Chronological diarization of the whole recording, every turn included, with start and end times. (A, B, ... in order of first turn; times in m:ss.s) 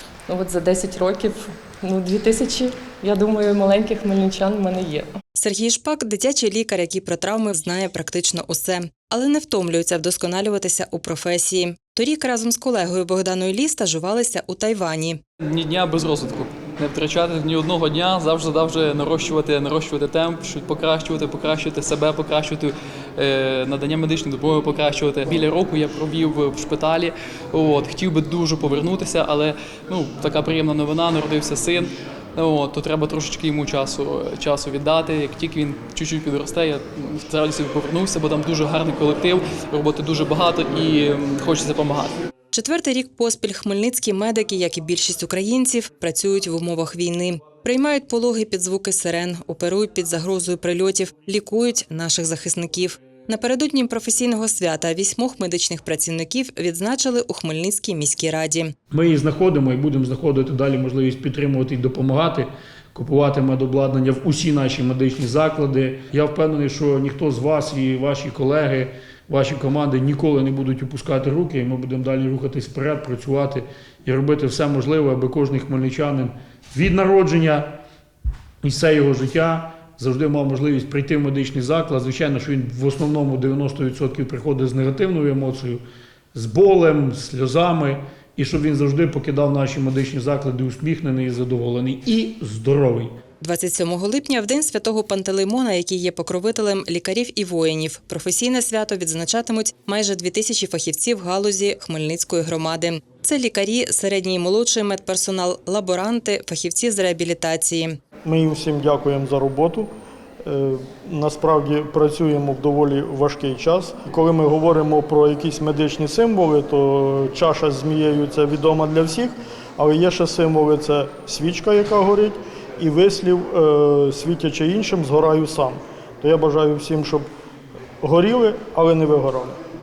0:00.3-0:05.0 A
0:05.3-0:15.2 B
0:15.4-0:42.2 C
0:42.5-0:58.7 B
0:58.9-1:17.7 D
1:18.6-1:25.8 D
1:26.3-1:33.1 D
1:33.4-1:48.0 B
1:48.2-1:49.9 E
1:50.4-2:07.3 E
2:08.0-2:09.6 E